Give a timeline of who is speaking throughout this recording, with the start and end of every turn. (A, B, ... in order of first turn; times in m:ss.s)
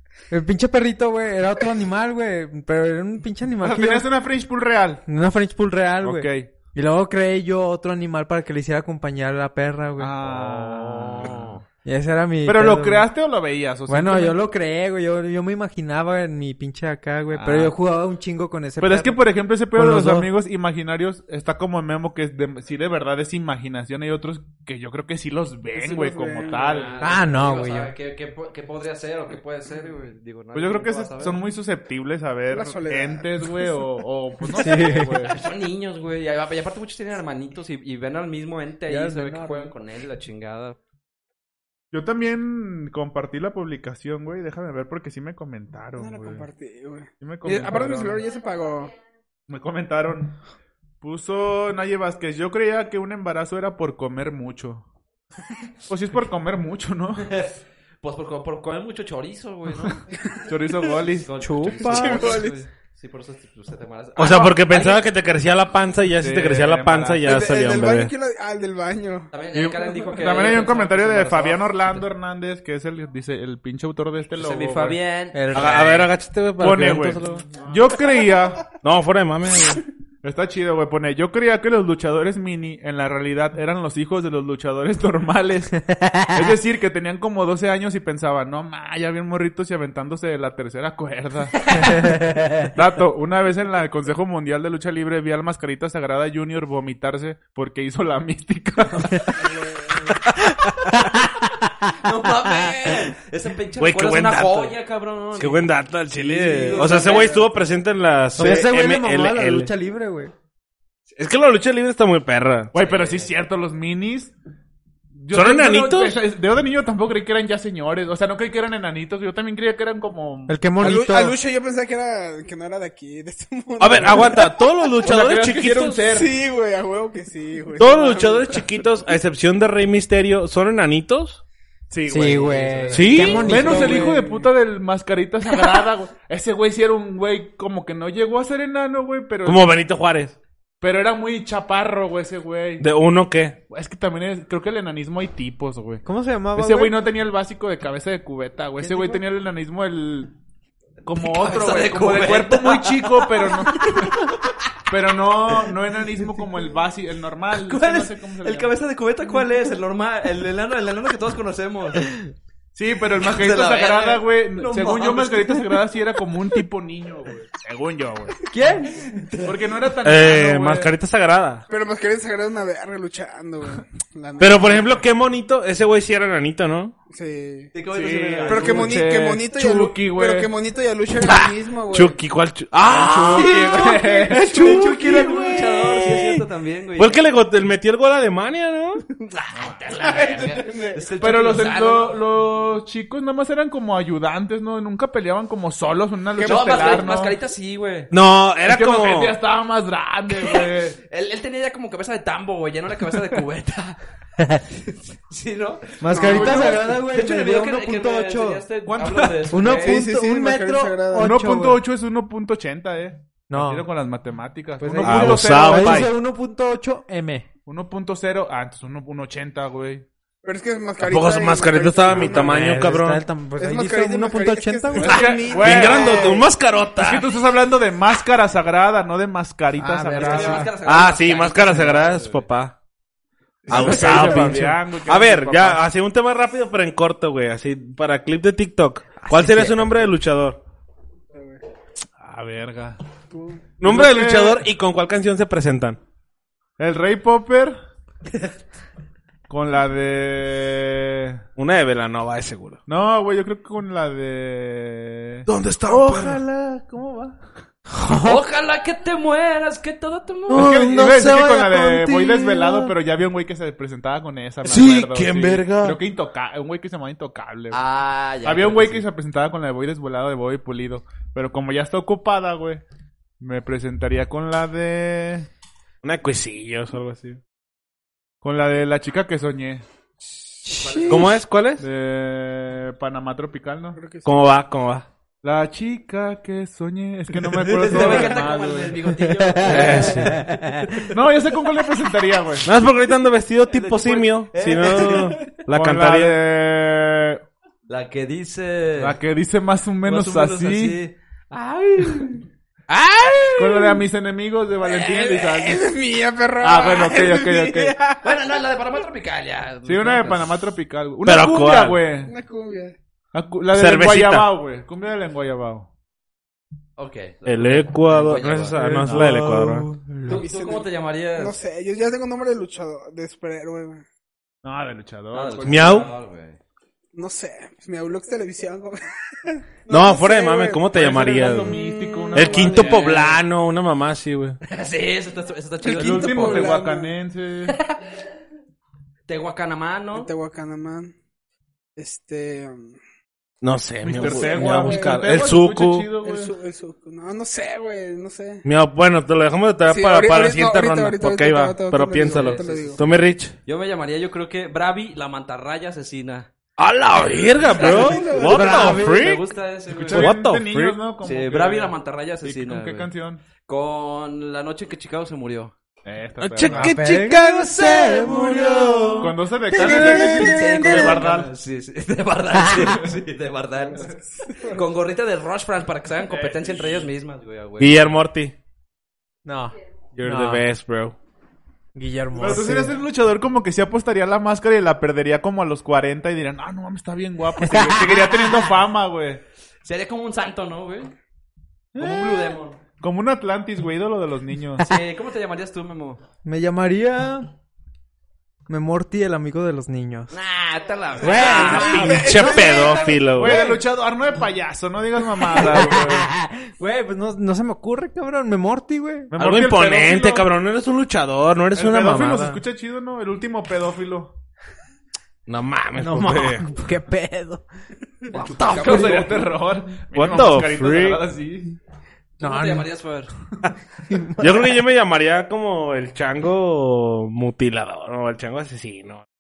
0:00.3-0:04.1 A
0:03.6-0:05.0 B
0:05.1-0:10.2 A
0:06.0-0:06.5 B
0:10.0-0:11.6 B
0:10.2-0:11.6 C
0:11.8-0:13.1 A
0:12.4-0:14.4 B
0:13.9-0:20.3 A
0:17.3-0:17.8 B
0:18.8-0:27.0 B
0:25.7-0:27.0 D
0:26.6-0:31.4 C
0:27.0-0:27.9 A
0:30.5-0:35.4 B
0:32.5-0:33.6 D
0:34.5-0:35.2 A
0:35.3-0:40.8 C
0:38.9-0:39.7 A
0:41.9-0:46.5 B
0:46.0-0:48.9 D
0:47.2-0:48.2 B
0:49.5-0:50.4 B
0:51.0-0:54.9 B
0:55.9-0:57.3 B
0:57.3-1:00.0 C
1:00.3-1:00.8 D
1:00.5-1:01.3 B
1:01.2-1:05.1 C
1:01.4-1:02.4 A
1:01.8-1:02.6 D
1:04.2-1:08.1 E
1:06.2-1:07.4 B
1:07.2-1:09.3 D
1:09.3-1:12.0 C
1:09.5-1:15.0 B
1:14.3-1:16.1 C
1:15.3-1:15.9 A
1:15.5-1:17.4 E
1:16.6-1:18.7 B
1:18.8-1:19.8 E
1:20.2-1:39.5 B
1:25.9-1:26.3 A
1:32.0-1:32.6 A
1:39.4-1:40.2 D
1:40.3-1:41.1 E
1:42.0-1:47.5 C
1:43.8-1:44.8 E
1:45.4-1:49.7 E
1:46.6-1:47.4 D
1:48.4-1:50.3 A
1:51.2-1:52.7 E
1:52.7-1:54.3 B
1:52.8-1:53.3 C
1:55.1-2:00.6 B
1:55.3-1:56.2 E
2:00.5-2:01.4 A
2:00.8-2:04.6 D
2:03.8-2:06.1 E
2:05.0-2:06.3 B
2:06.0-2:08.7 D
2:07.8-2:11.4 E
2:11.9-2:19.7 B
2:12.1-2:14.4 A
2:12.7-2:14.0 C
2:12.9-2:13.6 E
2:19.4-2:20.4 E
2:20.8-2:22.9 B
2:22.8-2:23.6 E
2:23.7-2:30.3 B
2:26.0-2:27.0 A
2:28.8-2:29.2 A
2:31.0-2:34.3 B
2:31.2-2:34.7 C
2:34.9-2:38.8 B
2:37.5-2:42.2 C
2:42.8-2:48.4 B
2:43.2-2:45.8 C
2:48.5-2:49.5 A
2:49.4-2:50.9 B
2:50.0-2:51.6 E
2:51.7-2:54.9 D
2:54.4-2:57.0 E
2:57.1-2:57.7 D
2:57.7-2:59.0 C
2:57.9-3:00.5 B
2:58.5-3:02.2 D
3:01.2-3:06.4 E
3:02.9-3:05.1 B
3:03.3-3:07.2 C
3:07.0-3:09.0 E
3:09.2-3:12.2 C
3:09.5-3:09.8 B
3:10.0-3:11.1 D
3:11.2-3:17.4 B
3:16.4-3:17.1 D
3:16.4-3:18.1 C
3:18.1-3:19.4 E
3:18.6-3:21.0 B
3:20.5-3:24.0 C
3:24.9-3:30.0 C
3:26.0-3:28.6 A
3:26.1-3:26.8 D
3:26.3-3:26.9 B
3:28.9-3:29.7 B
3:29.5-3:31.8 A
3:29.7-3:31.4 D
3:31.2-3:36.1 B
3:33.5-3:33.9 A
3:34.8-3:37.5 A
3:35.0-3:36.1 E
3:37.7-3:40.0 B
3:40.4-3:42.8 D
3:41.0-3:43.2 E
3:42.3-3:46.2 A
3:43.6-3:46.5 D
3:45.0-3:46.3 B
3:45.0-3:47.3 E
3:47.0-3:50.7 B
3:49.8-3:50.7 A
3:50.1-3:52.4 C
3:50.8-3:52.8 E
3:53.6-3:55.8 B
3:53.7-4:00.6 E
3:53.7-3:54.6 A
3:59.2-3:59.9 A
4:01.3-4:01.6 D
4:02.2-4:03.0 B
4:03.3-4:03.6 D
4:03.8-4:06.0 E
4:03.8-4:04.6 B
4:06.8-4:07.8 B
4:09.5-4:11.4 B
4:11.6-4:12.8 E
4:12.9-4:17.4 B
4:15.5-4:16.4 E
4:17.9-4:18.4 A
4:18.2-4:20.8 C
4:20.5-4:22.9 E
4:20.5-4:27.8 B
4:24.6-4:26.0 E
4:27.7-4:29.0 C
4:28.4-4:32.8 B
4:33.4-4:35.5 B
4:36.0-4:37.4 E
4:38.4-4:39.8 B
4:40.6-4:41.2 A
4:40.8-4:41.3 C
4:41.1-4:41.9 E
4:41.8-4:44.0 B
4:44.0-4:44.5 D
4:44.2-4:45.1 E
4:45.4-4:49.0 B
4:47.6-4:50.5 C
4:49.2-4:51.1 A
4:49.6-4:50.4 E
4:49.6-4:50.0 B
4:51.1-4:52.7 B
4:52.6-4:56.4 E
4:53.7-4:55.6 C
4:55.7-4:57.4 B
4:57.9-4:59.2 C
4:59.0-5:01.0 B
5:00.0-5:03.9 C
5:03.6-5:05.9 B
5:04.8-5:08.6 D
5:06.6-5:08.0 B
5:08.2-5:10.6 C
5:09.8-5:12.3 B
5:11.2-5:12.0 E
5:12.2-5:13.0 D
5:13.3-5:15.9 B
5:13.7-5:14.5 E
5:17.0-5:19.1 C
5:17.5-5:19.9 E
5:18.8-5:20.4 A
5:20.3-5:21.6 C
5:20.3-5:24.0 D
5:24.6-5:26.1 B
5:25.3-5:26.6 C
5:25.6-5:26.1 E
5:27.2-5:30.9 D
5:29.9-5:31.8 E
5:30.9-5:33.2 B
5:31.6-5:33.0 D
5:32.3-5:34.6 E
5:32.6-5:33.4 C
5:34.7-5:36.7 C
5:35.8-5:37.1 D
5:35.9-5:37.8 B
5:39.3-5:40.3 C
5:40.1-5:41.1 D
5:42.0-5:43.0 D
5:43.6-5:46.1 E
5:44.0-5:46.6 B
5:44.1-5:45.3 D
5:46.2-5:48.6 D
5:48.6-5:53.6 E
5:49.9-5:53.0 D
5:52.2-5:53.0 C
5:53.7-5:56.5 C
5:56.8-5:59.4 E
5:57.7-6:00.4 C
5:57.8-5:59.0 D
5:58.3-5:59.3 A
5:59.9-6:03.4 B
6:00.1-6:01.0 E
6:01.2-6:03.1 C
6:03.7-6:05.7 C
6:06.0-6:07.0 B
6:06.4-6:09.3 E
6:06.7-6:11.2 A
6:09.2-6:11.5 B
6:09.8-6:18.2 C
6:14.0-6:14.8 D
6:16.3-6:17.1 B
6:17.8-6:18.6 E
6:19.4-6:20.7 A
6:20.2-6:21.2 E
6:22.0-6:23.0 A
6:22.4-6:29.4 B
6:27.6-6:28.1 A
6:29.8-6:31.1 C
6:32.0-6:34.9 B
6:32.0-6:32.8 C
6:34.8-6:36.2 C
6:36.4-6:37.5 A
6:38.7-6:40.3 A
6:40.3-6:42.9 C
6:41.2-6:42.5 A
6:41.3-6:43.6 E
6:41.4-6:43.6 D
6:43.3-6:46.3 B
6:45.6-6:49.3 A
6:49.3-6:50.5 B
6:49.4-6:52.6 E
6:51.8-6:54.3 B
6:55.5-6:56.7 E
6:56.0-6:57.6 A
6:58.3-6:59.5 C
6:58.4-6:59.2 E
6:58.6-7:01.8 B
7:00.1-7:01.2 E
7:02.4-7:03.3 C
7:02.4-7:02.9 A
7:04.1-7:04.6 A
7:04.4-7:09.2 E